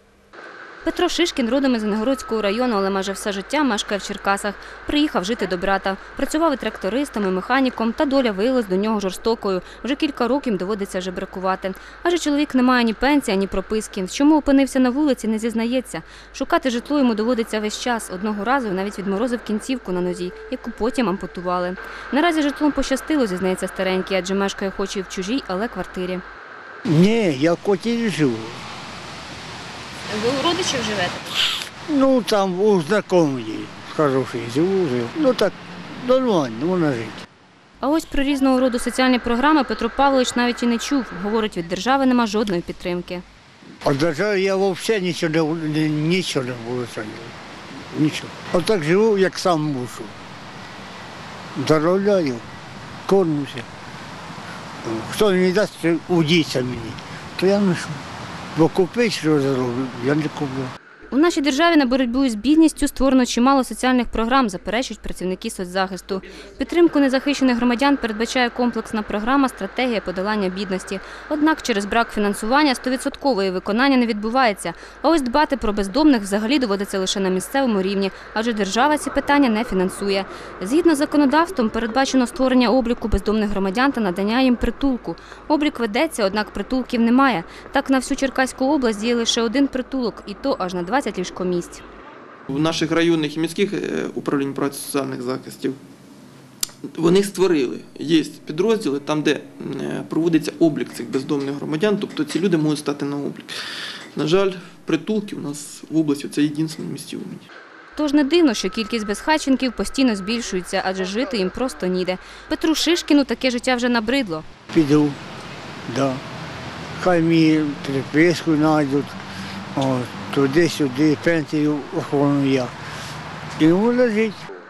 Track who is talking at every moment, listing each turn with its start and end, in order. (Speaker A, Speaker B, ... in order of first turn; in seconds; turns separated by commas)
Speaker A: 0.8-26.2, Speaker B: 26.8-28.6, Speaker A: 30.1-31.4, Speaker B: 31.9-37.2, Speaker A: 37.8-43.2, Speaker B: 43.8-50.1, Speaker B: 51.5-52.4, Speaker B: 53.0-53.7, Speaker B: 54.8-58.0, Speaker B: 58.5-60.7, Speaker A: 61.1-91.8, Speaker C: 92.5-95.8, Speaker C: 96.9-103.5, Speaker C: 104.1-107.5, Speaker A: 108.0-114.5, Speaker B: 114.7-115.2, Speaker B: 115.9-116.2, Speaker B: 117.0-119.1, Speaker B: 119.7-122.7, Speaker B: 123.6-124.4